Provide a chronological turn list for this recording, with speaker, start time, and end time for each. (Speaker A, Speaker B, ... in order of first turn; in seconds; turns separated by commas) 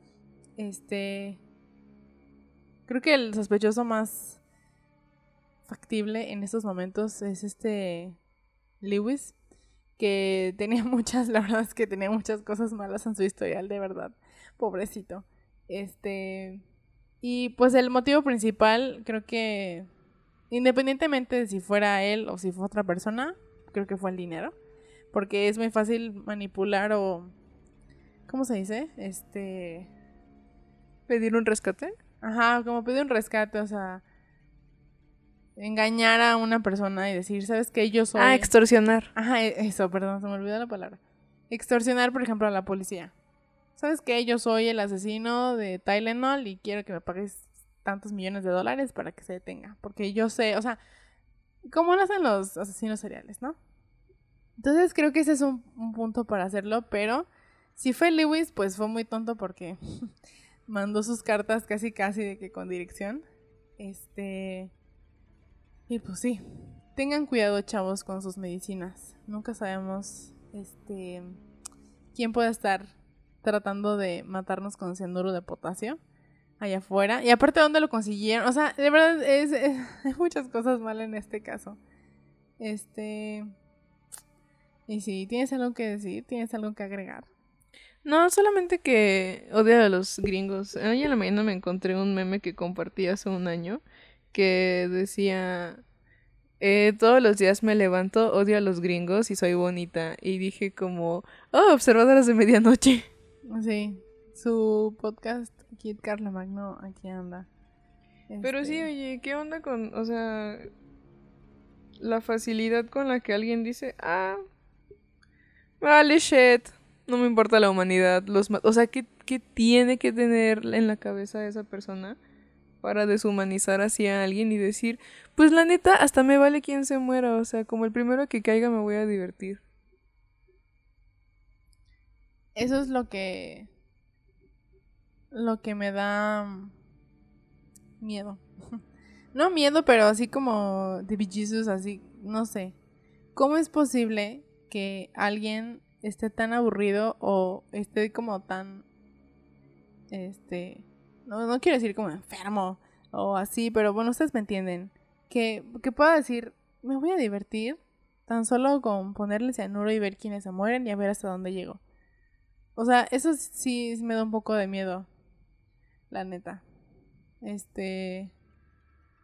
Speaker A: 0.6-1.4, Speaker A: 2.9-4.4, Speaker A: 5.7-8.2, Speaker A: 8.8-9.3, Speaker A: 10.0-16.6, Speaker A: 17.2-19.9, Speaker A: 20.5-24.5, Speaker A: 25.1-27.3, Speaker A: 28.3-29.9, Speaker B: 31.1-32.0, Speaker A: 32.2-34.0, Speaker A: 35.6-38.5, Speaker B: 38.1-39.1, Speaker A: 39.1-43.1, Speaker A: 43.8-50.8, Speaker A: 51.7-53.6, Speaker A: 54.6-59.8, Speaker A: 60.7-63.2, Speaker A: 63.8-64.7, Speaker A: 65.9-66.4, Speaker A: 66.9-71.4, Speaker A: 72.1-76.0, Speaker A: 76.6-81.8, Speaker A: 82.6-83.5, Speaker A: 84.9-87.3, Speaker B: 88.0-93.8, Speaker B: 94.3-95.8, Speaker B: 96.6-103.1, Speaker A: 103.5-107.5, Speaker A: 108.3-108.9, Speaker B: 108.4-110.7, Speaker B: 112.0-114.4, Speaker B: 115.8-122.2, Speaker B: 122.8-129.6, Speaker A: 132.6-133.7, Speaker A: 135.3-136.7, Speaker A: 138.0-138.8, Speaker A: 139.3-142.7, Speaker A: 143.3-148.8, Speaker A: 150.1-161.8, Speaker A: 162.8-165.1, Speaker A: 166.1-166.6, Speaker A: 167.4-168.3